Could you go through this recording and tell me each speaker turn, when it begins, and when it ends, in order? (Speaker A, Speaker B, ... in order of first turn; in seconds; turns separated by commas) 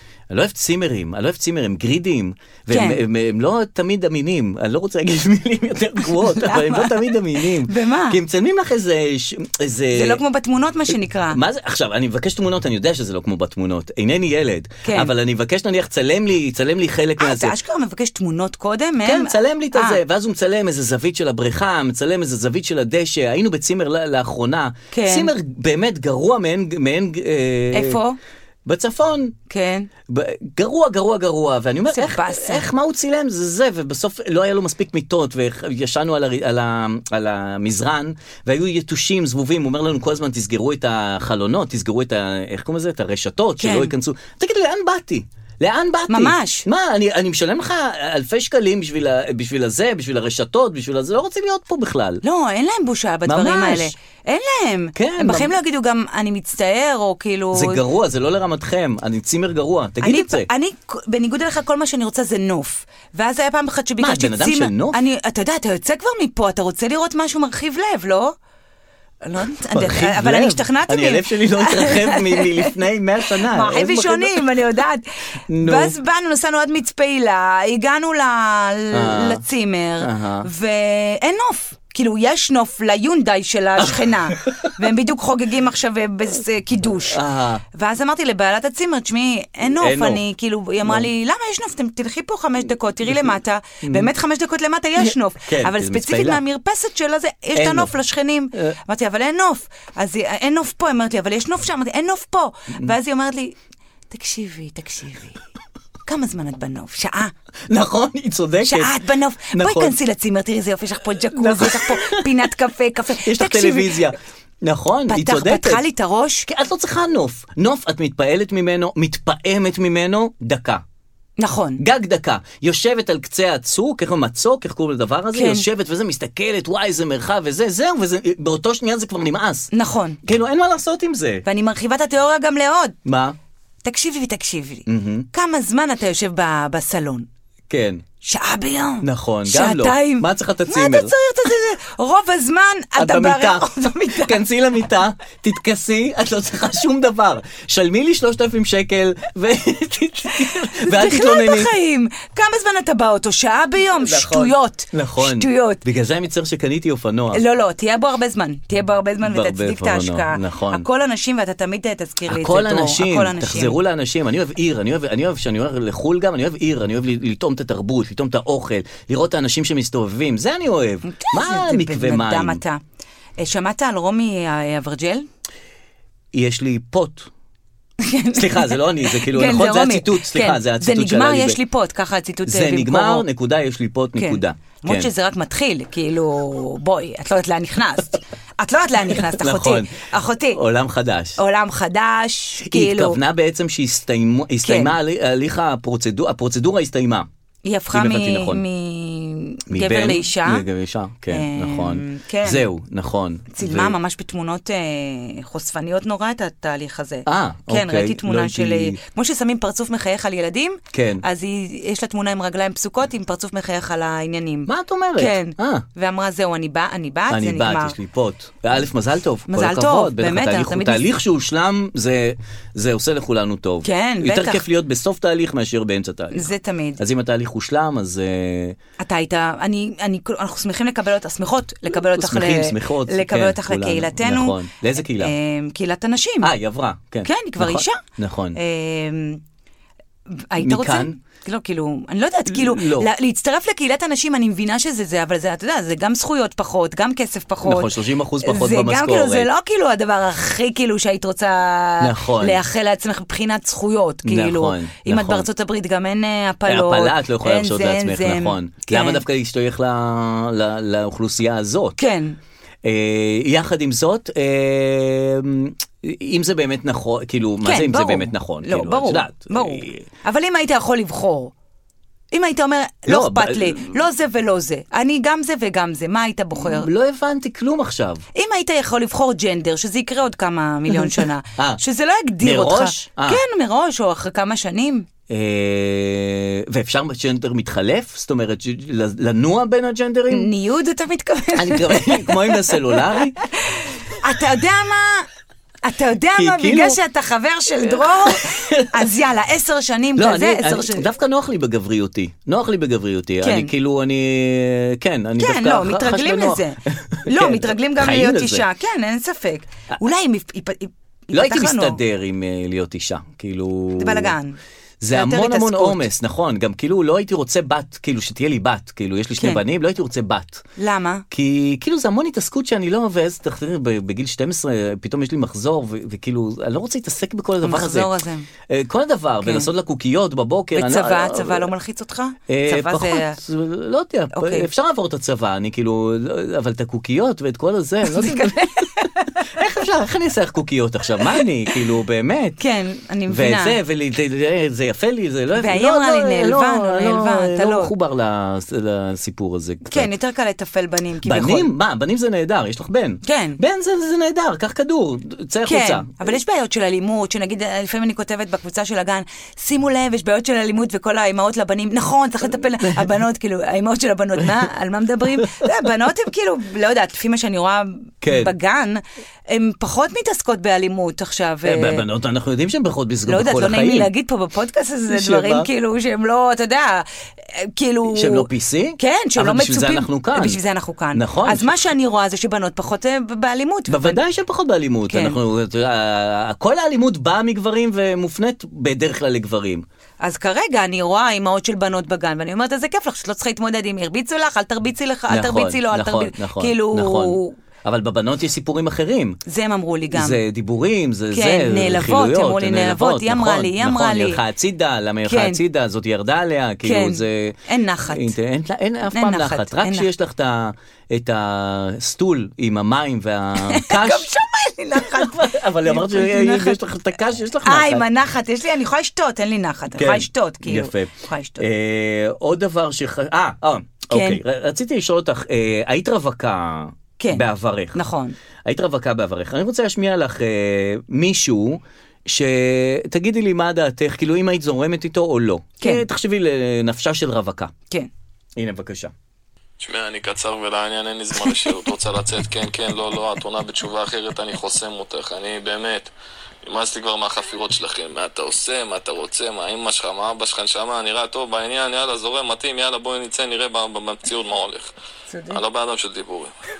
Speaker A: 0.3-10.2, Speaker B: 2.7-3.0, Speaker B: 6.2-8.2, Speaker B: 9.9-11.4, Speaker A: 11.3-17.6, Speaker B: 14.8-15.1, Speaker B: 17.2-20.0, Speaker A: 19.0-28.0, Speaker B: 24.9-25.3, Speaker B: 27.7-28.2, Speaker A: 28.6-29.3, Speaker B: 29.5-29.9, Speaker A: 30.1-52.2, Speaker B: 31.9-32.6, Speaker B: 43.6-43.9, Speaker B: 46.1-46.6, Speaker B: 52.2-57.8, Speaker A: 53.2-53.9, Speaker A: 54.9-55.5, Speaker A: 57.5-60.5, Speaker B: 60.0-68.3, Speaker A: 64.0-65.0, Speaker B: 69.2-72.7, Speaker A: 69.7-74.4, Speaker B: 73.4-75.0, Speaker A: 75.5-75.9, Speaker B: 75.6-87.2, Speaker A: 78.9-79.4, Speaker A: 80.0-80.5, Speaker A: 83.8-84.7, Speaker A: 87.1-87.6, Speaker B: 87.7-103.5, Speaker A: 89.7-90.2, Speaker A: 90.8-91.1, Speaker A: 93.8-94.1, Speaker A: 95.0-96.4, Speaker A: 97.5-97.9, Speaker B: 104.1-105.4, Speaker B: 106.0-107.3, Speaker A: 107.7-108.9, Speaker B: 108.6-114.1, Speaker A: 109.5-109.9, Speaker A: 111.3-112.5, Speaker A: 113.2-115.8, Speaker B: 115.1-116.5, Speaker A: 116.5-120.8, Speaker B: 121.4-121.8, Speaker A: 121.8-129.7, Speaker B: 125.3-125.6, Speaker B: 129.7-130.2, Speaker A: 130.2-131.4, Speaker B: 131.4-133.0, Speaker A: 133.0-133.3, Speaker B: 133.8-137.3, Speaker A: 134.9-135.3, Speaker A: 137.7-138.0, Speaker B: 138.2-144.4, Speaker A: 139.0-141.1, Speaker A: 143.0-151.7, Speaker B: 150.4-155.8, Speaker A: 154.0-157.4, Speaker B: 157.3-163.8, Speaker A: 159.2-160.8, Speaker A: 162.3-172.6, Speaker B: 171.1-172.8, Speaker B: 173.4-175.2, Speaker A: 176.3-177.3, Speaker B: 178.0-183.2, Speaker A: 178.3-181.6, Speaker A: 182.4-185.1, Speaker B: 184.2-190.6, Speaker A: 189.2-190.0, Speaker A: 190.5-191.4, Speaker B: 191.4-193.2, Speaker A: 192.6-197.3, Speaker B: 194.6-194.9, Speaker B: 197.6-200.7, Speaker A: 197.9-198.6, Speaker A: 199.7-203.9, Speaker B: 201.3-202.7, Speaker B: 203.5-217.9, Speaker A: 207.2-209.0, Speaker A: 210.9-211.2, Speaker A: 214.7-215.8, Speaker A: 217.3-228.8, Speaker B: 219.5-221.1, Speaker B: 223.8-224.6, Speaker B: 226.3-227.0, Speaker B: 229.0-234.6, Speaker A: 232.1-235.3, Speaker B: 235.1-236.5, Speaker A: 236.4-238.6, Speaker B: 237.2-238.0, Speaker B: 238.5-239.4, Speaker B: 240.3-259.2, Speaker A: 240.6-241.2, Speaker A: 242.5-243.1, Speaker A: 247.6-249.5, Speaker A: 252.0-252.6, Speaker A: 254.2-255.5, Speaker A: 256.6-262.0, Speaker B: 262.0-262.4, Speaker A: 262.8-270.0, Speaker B: 267.6-271.5, Speaker B: 272.3-276.9, Speaker A: 273.1-274.0, Speaker A: 276.6-278.2, Speaker B: 278.3-285.1, Speaker A: 280.9-281.8, Speaker A: 282.4-283.4, Speaker A: 285.3-290.5, Speaker B: 290.3-293.0, Speaker A: 291.5-293.4, Speaker B: 293.7-295.3, Speaker B: 295.8-301.1, Speaker A: 296.4-297.0, Speaker A: 297.8-299.1, Speaker A: 300.1-308.6, Speaker B: 303.4-303.7, Speaker B: 305.4-312.0, Speaker A: 311.3-314.3, Speaker B: 313.9-314.6, Speaker A: 315.0-320.6, Speaker B: 315.1-316.1, Speaker B: 320.8-321.2, Speaker A: 321.3-328.1, Speaker B: 327.6-328.5, Speaker A: 328.7-331.7, Speaker B: 329.4-329.7, Speaker B: 330.7-333.4, Speaker A: 332.5-342.6, Speaker B: 334.3-334.7, Speaker B: 338.1-339.4, Speaker B: 342.6-343.8, Speaker A: 343.3-350.1, Speaker B: 345.5-347.9, Speaker B: 349.9-351.7, Speaker A: 351.2-356.3, Speaker B: 353.2-353.6, Speaker B: 355.6-372.0, Speaker A: 362.8-363.1, Speaker A: 365.4-365.7, Speaker A: 368.2-368.5, Speaker A: 371.6-374.1, Speaker B: 373.3-378.5, Speaker A: 375.1-375.7, Speaker A: 378.1-380.6, Speaker B: 379.0-384.2, Speaker A: 381.1-381.8, Speaker A: 383.9-389.8, Speaker B: 385.1-385.4, Speaker B: 390.2-397.6, Speaker A: 395.3-399.4, Speaker B: 399.4-400.4, Speaker A: 400.1-407.6, Speaker B: 401.3-404.4, Speaker B: 405.2-405.6, Speaker B: 406.8-408.3, Speaker A: 408.1-414.3, Speaker B: 409.1-410.1, Speaker B: 413.6-416.8, Speaker A: 414.9-418.1, Speaker B: 417.6-421.6, Speaker A: 420.0-428.0, Speaker B: 424.1-424.4, Speaker B: 427.2-428.4, Speaker A: 428.6-437.7, Speaker A: 438.6-439.1, Speaker C: 439.8-446.1, Speaker C: 446.6-454.9, Speaker B: 455.3-455.6, Speaker C: 455.5-456.5